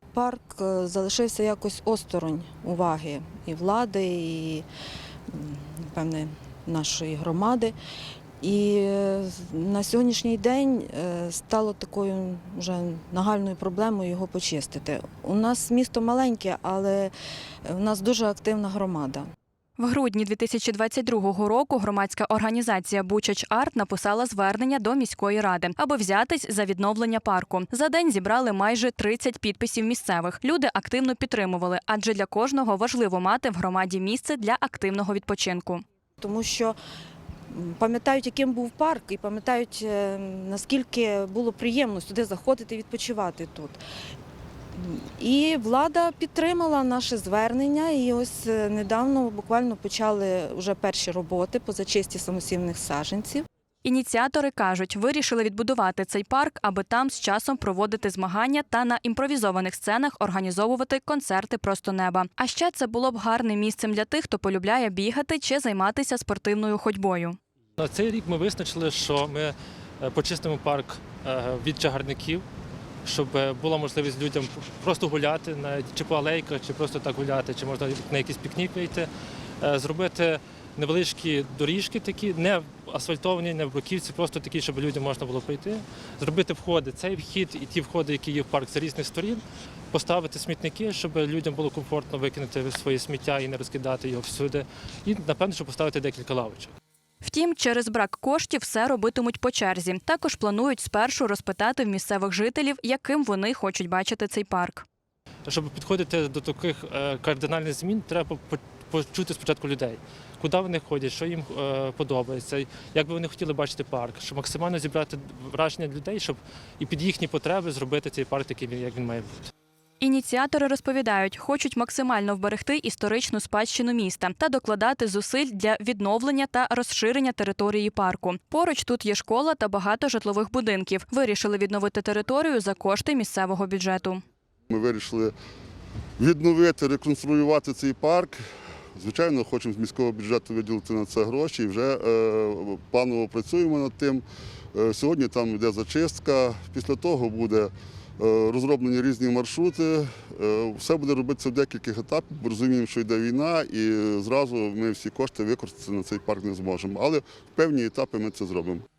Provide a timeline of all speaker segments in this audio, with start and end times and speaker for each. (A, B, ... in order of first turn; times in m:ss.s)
0:00.1-0:04.6 A
0:05.3-0:07.8 A
0:08.4-0:17.1 A
0:17.7-0:19.2 A
0:19.8-0:35.8 B
0:36.2-0:36.8 A
0:37.5-0:43.8 A
0:44.8-0:53.4 A
0:53.8-1:07.4 B
1:07.8-1:12.4 C
1:13.0-1:19.1 C
1:19.6-1:36.7 C
1:37.2-1:44.8 B
1:45.5-1:59.5 C
2:00.0-2:14.2 B
2:14.7-2:15.3 D
2:16.2-2:18.4 D
2:19.0-2:38.8 D